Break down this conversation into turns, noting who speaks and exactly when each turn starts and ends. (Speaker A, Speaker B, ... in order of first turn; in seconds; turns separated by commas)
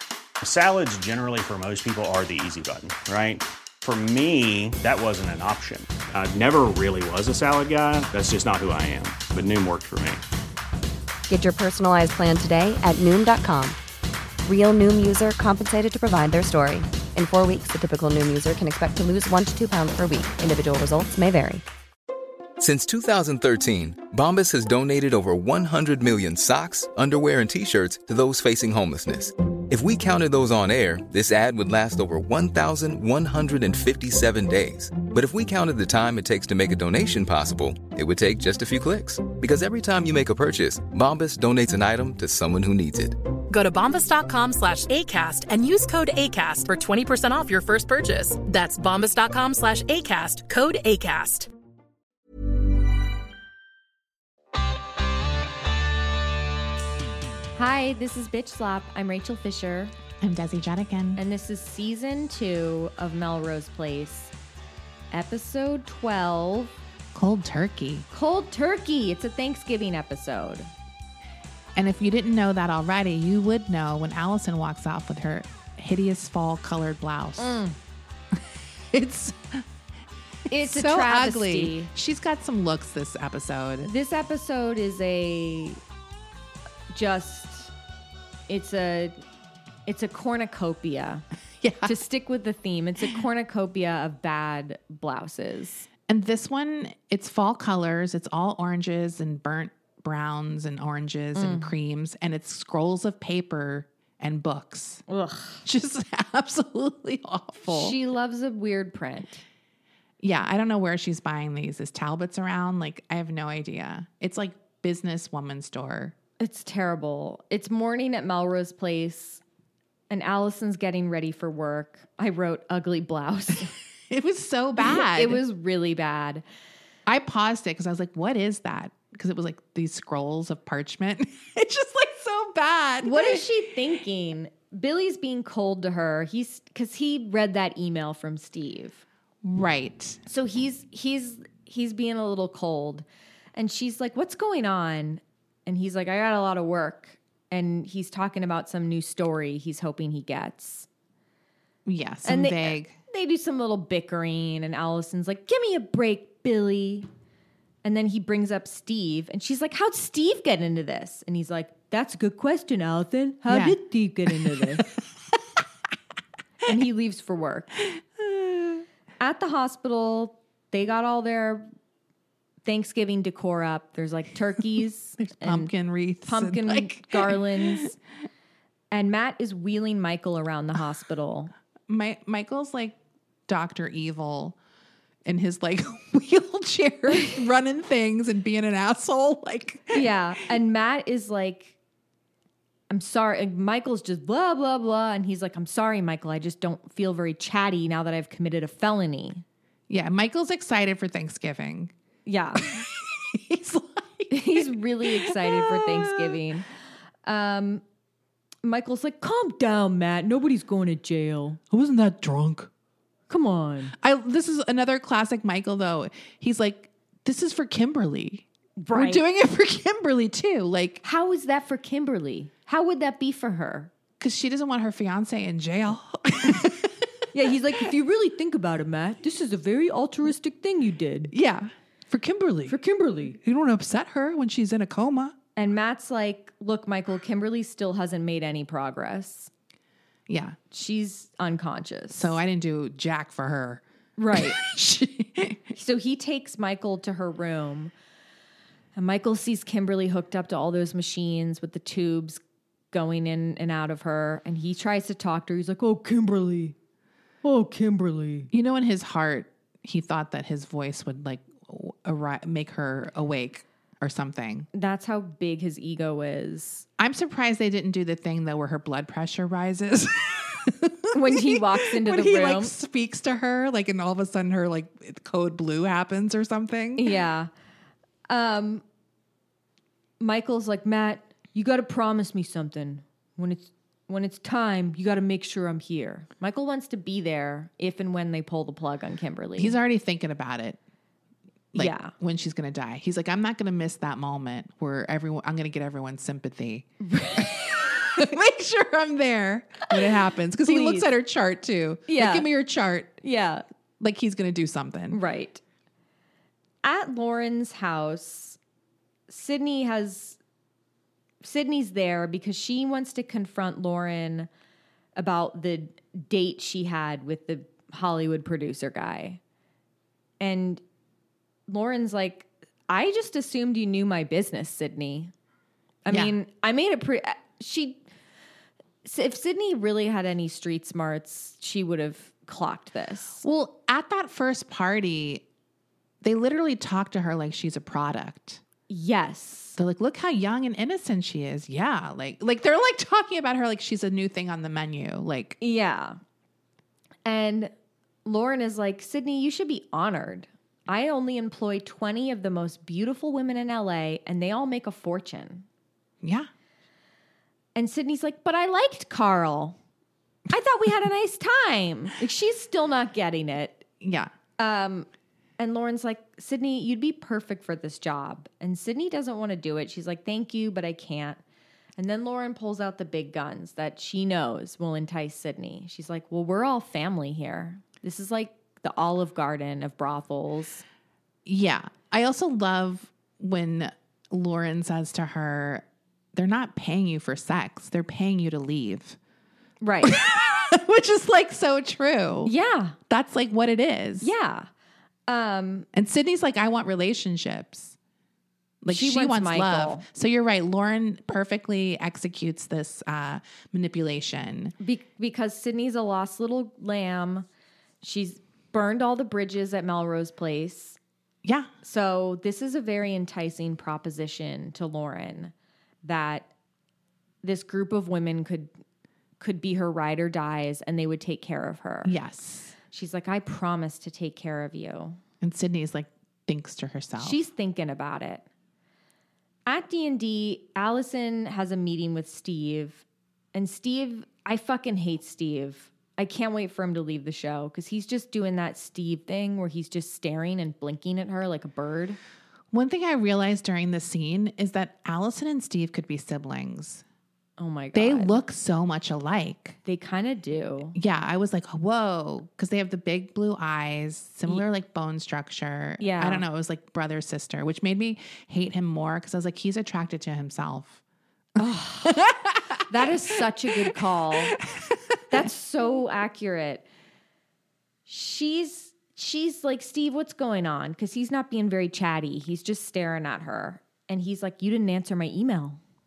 Speaker A: 0.4-10.2, Speaker B: 11.3-13.8, Speaker B: 14.4-21.6, Speaker C: 22.6-43.2, Speaker D: 43.5-51.5, Speaker E: 57.5-59.9, Speaker F: 60.2-61.2, Speaker E: 61.2-64.3, Speaker E: 65.1-66.7, Speaker F: 67.1-68.0, Speaker E: 68.1-70.7, Speaker F: 71.7-77.6, Speaker E: 77.4-77.8, Speaker F: 78.3-79.7, Speaker F: 80.5-83.9, Speaker E: 80.5-81.9, Speaker E: 83.8-85.8, Speaker E: 86.9-87.7, Speaker E: 88.5-89.2, Speaker E: 89.9-91.2, Speaker F: 91.6-92.0, Speaker E: 91.8-95.9, Speaker F: 96.1-105.0, Speaker E: 101.3-101.7, Speaker E: 105.1-105.7, Speaker F: 105.6-108.0, Speaker E: 107.7-109.4, Speaker F: 110.2-116.1, Speaker E: 116.4-119.4, Speaker E: 120.1-123.7, Speaker F: 124.1-125.4, Speaker E: 124.8-126.4, Speaker F: 127.0-133.5, Speaker E: 133.0-139.0, Speaker F: 139.4-140.2, Speaker E: 140.2-150.9, Speaker F: 151.8-152.9, Speaker E: 152.2-157.1, Speaker E: 157.8-164.9, Speaker F: 163.5-164.8, Speaker E: 166.7-167.7, Speaker E: 169.2-171.7, Speaker E: 172.6-175.7, Speaker F: 175.2-177.8, Speaker E: 176.2-178.0, Speaker E: 178.9-181.5, Speaker F: 181.9-184.6, Speaker F: 185.2-190.1, Speaker E: 189.9-191.8, Speaker E: 192.9-199.4, Speaker F: 199.9-201.9, Speaker E: 202.2-202.7, Speaker F: 202.6-206.4, Speaker E: 204.3-206.7, Speaker E: 207.2-207.8, Speaker E: 208.6-211.6, Speaker F: 211.7-212.7, Speaker E: 213.3-213.9, Speaker F: 214.0-221.0, Speaker E: 218.8-219.2, Speaker E: 221.0-223.9, Speaker F: 224.2-227.0, Speaker E: 227.3-231.3, Speaker F: 231.3-232.8, Speaker E: 232.7-233.4, Speaker F: 233.3-235.3, Speaker E: 235.6-239.5, Speaker F: 240.3-240.6, Speaker E: 240.7-242.4, Speaker F: 242.1-245.7, Speaker E: 244.2-244.6, Speaker E: 245.7-247.9, Speaker E: 248.9-252.4, Speaker E: 252.9-256.7, Speaker E: 257.4-258.5, Speaker F: 258.5-264.7, Speaker E: 264.7-266.8, Speaker F: 267.0-277.2, Speaker E: 271.1-272.7, Speaker E: 277.0-277.5, Speaker E: 278.3-278.8, Speaker E: 280.2-289.8, Speaker F: 289.6-290.8, Speaker F: 291.7-303.2, Speaker E: 291.8-292.1, Speaker E: 297.0-298.2, Speaker E: 300.6-301.1, Speaker E: 302.1-302.5, Speaker E: 303.2-303.6, Speaker F: 304.0-305.2, Speaker E: 305.1-305.6, Speaker E: 306.8-308.6, Speaker E: 309.3-310.4, Speaker E: 311.4-314.5, Speaker E: 315.1-319.4, Speaker E: 320.4-320.8, Speaker E: 321.7-325.3, Speaker E: 326.0-328.0, Speaker F: 326.1-326.4, Speaker E: 329.0-333.4, Speaker F: 333.4-335.4, Speaker F: 336.2-338.6, Speaker E: 338.9-339.8, Speaker F: 339.8-345.6, Speaker E: 345.6-346.2, Speaker E: 347.2-347.7, Speaker E: 348.2-355.6, Speaker F: 356.2-356.5, Speaker E: 357.7-359.8, Speaker E: 360.5-363.9, Speaker F: 364.0-364.3, Speaker E: 364.6-365.1, Speaker E: 365.6-371.4, Speaker E: 372.0-380.8, Speaker F: 381.4-389.2, Speaker E: 389.8-390.2, Speaker F: 390.0-392.5, Speaker E: 392.4-393.0, Speaker F: 393.1-394.3, Speaker E: 394.2-394.7, Speaker E: 395.3-395.9, Speaker F: 395.9-397.9, Speaker F: 398.8-404.7, Speaker E: 398.9-400.1, Speaker E: 404.8-407.5, Speaker E: 408.0-411.0, Speaker F: 411.4-411.7, Speaker E: 411.8-415.5, Speaker E: 416.0-416.5, Speaker E: 417.4-418.7, Speaker E: 419.4-422.1, Speaker F: 422.0-422.7, Speaker E: 422.9-425.2, Speaker F: 425.4-427.4, Speaker E: 427.2-428.4, Speaker E: 429.6-442.2, Speaker F: 442.7-447.0, Speaker E: 447.6-448.4, Speaker F: 447.9-449.8, Speaker E: 449.8-451.0, Speaker F: 450.9-461.0, Speaker E: 456.0-456.4, Speaker E: 461.6-462.3, Speaker F: 462.0-464.0, Speaker E: 462.9-464.6, Speaker F: 464.5-465.3, Speaker E: 465.3-466.9, Speaker E: 468.1-475.8